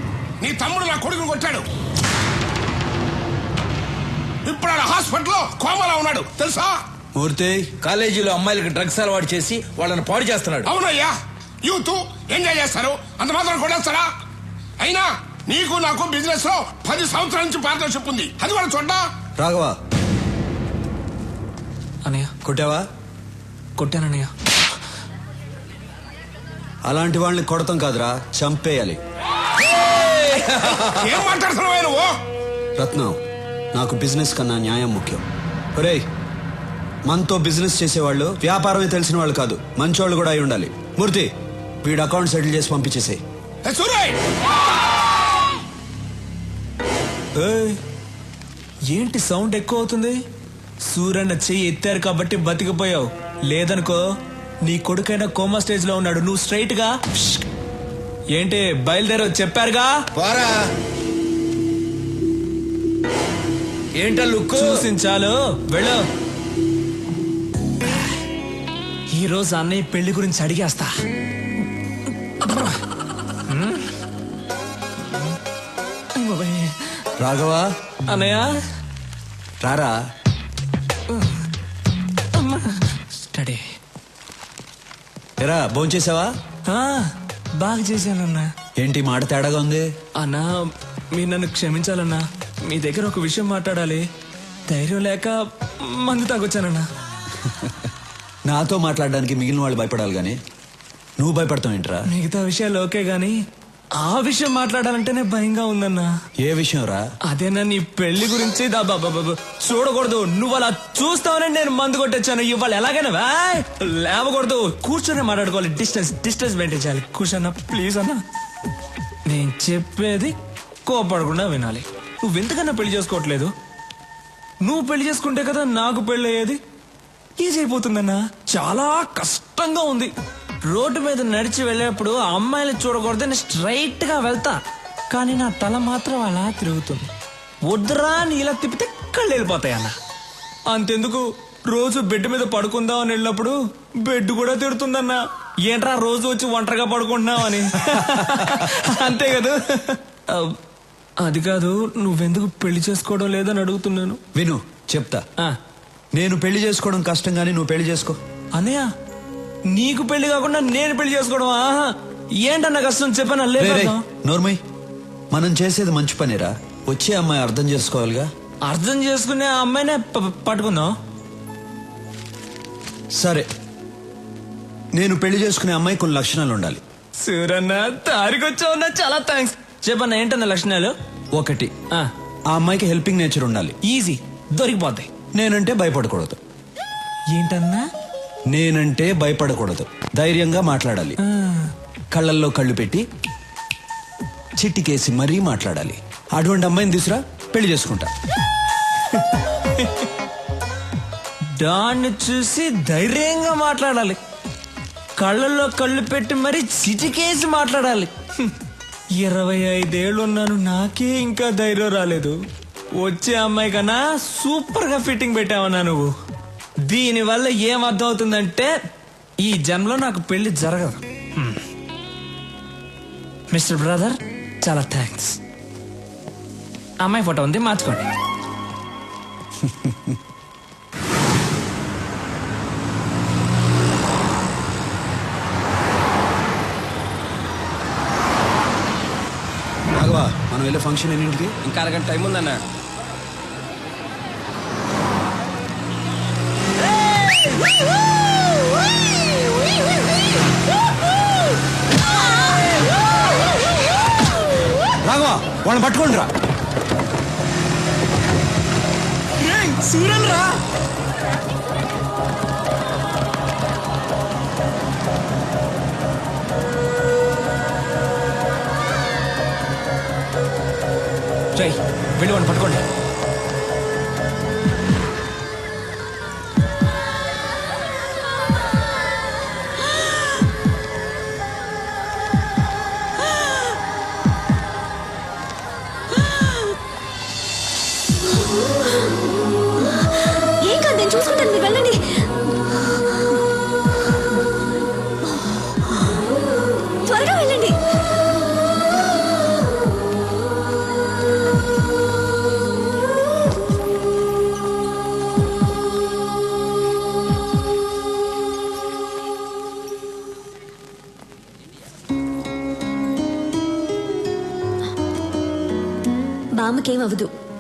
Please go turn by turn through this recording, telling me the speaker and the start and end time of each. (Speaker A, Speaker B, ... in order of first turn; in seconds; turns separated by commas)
Speaker A: 0.4-1.7, Speaker A: 4.5-6.8, Speaker B: 7.1-7.8, Speaker C: 7.8-10.7, Speaker A: 10.6-14.1, Speaker A: 14.8-19.1, Speaker B: 19.4-19.8, Speaker D: 22.0-22.3, Speaker B: 22.4-22.8, Speaker D: 23.8-24.3, Speaker B: 26.8-29.0, Speaker B: 30.0-30.7, Speaker A: 30.6-32.2, Speaker B: 32.8-33.2, Speaker B: 33.7-35.2, Speaker B: 35.8-36.0, Speaker B: 37.1-41.3, Speaker B: 41.8-43.2, Speaker A: 43.6-44.2, Speaker D: 47.4-47.8, Speaker D: 48.9-50.2, Speaker D: 50.9-54.1, Speaker D: 54.6-57.4, Speaker D: 58.3-60.0, Speaker C: 60.2-60.7, Speaker C: 64.0-64.6, Speaker D: 64.5-66.0, Speaker D: 69.1-70.9, Speaker D: 72.4-72.8, Speaker D: 73.4-73.9, Speaker D: 76.2-76.9, Speaker B: 77.2-77.7, Speaker D: 78.1-78.5, Speaker B: 79.6-80.0, Speaker D: 81.1-81.4, Speaker D: 82.3-83.7, Speaker B: 85.4-86.3, Speaker D: 86.7-88.5, Speaker B: 88.8-89.9, Speaker D: 90.2-94.0, Speaker D: 94.7-96.9, Speaker B: 97.4-97.9, Speaker B: 98.5-100.4, Speaker B: 101.2-102.1, Speaker D: 102.1-103.4, Speaker D: 104.0-106.1, Speaker B: 106.4-107.0, Speaker D: 107.3-118.2, Speaker D: 119.2-123.5, Speaker D: 124.6-126.6, Speaker D: 127.4-130.1, Speaker D: 130.7-134.6, Speaker D: 135.1-137.1, Speaker D: 137.6-139.9, Speaker D: 140.7-150.5, Speaker B: 148.1-148.5, Speaker D: 151.2-154.2, Speaker B: 154.3-155.2, Speaker B: 156.1-158.2, Speaker D: 158.5-158.9, Speaker D: 159.7-164.0, Speaker B: 163.6-164.6, Speaker B: 165.3-168.3, Speaker D: 168.6-170.9, Speaker B: 173.1-173.5, Speaker B: 174.9-176.8, Speaker D: 177.2-180.9, Speaker B: 181.3-181.7, Speaker B: 182.5-183.8, Speaker D: 183.8-185.1, Speaker B: 185.3-186.4, Speaker D: 187.3-187.8, Speaker B: 188.5-191.2, Speaker D: 191.2-191.7, Speaker B: 192.1-193.0, Speaker B: 194.5-198.1, Speaker D: 199.1-200.1, Speaker D: 201.5-204.2, Speaker D: 205.2-208.5, Speaker D: 209.2-212.4, Speaker D: 212.9-216.1, Speaker D: 216.8-218.7, Speaker D: 219.4-221.6, Speaker D: 223.5-225.4, Speaker D: 227.0-228.1, Speaker B: 229.6-230.2, Speaker B: 239.9-241.6, Speaker C: 241.7-242.5, Speaker B: 255.0-256.3, Speaker D: 259.4-260.6, Speaker D: 271.5-272.9, Speaker E: 290.2-292.2, Speaker E: 297.1-297.8, Speaker E: 316.6-317.3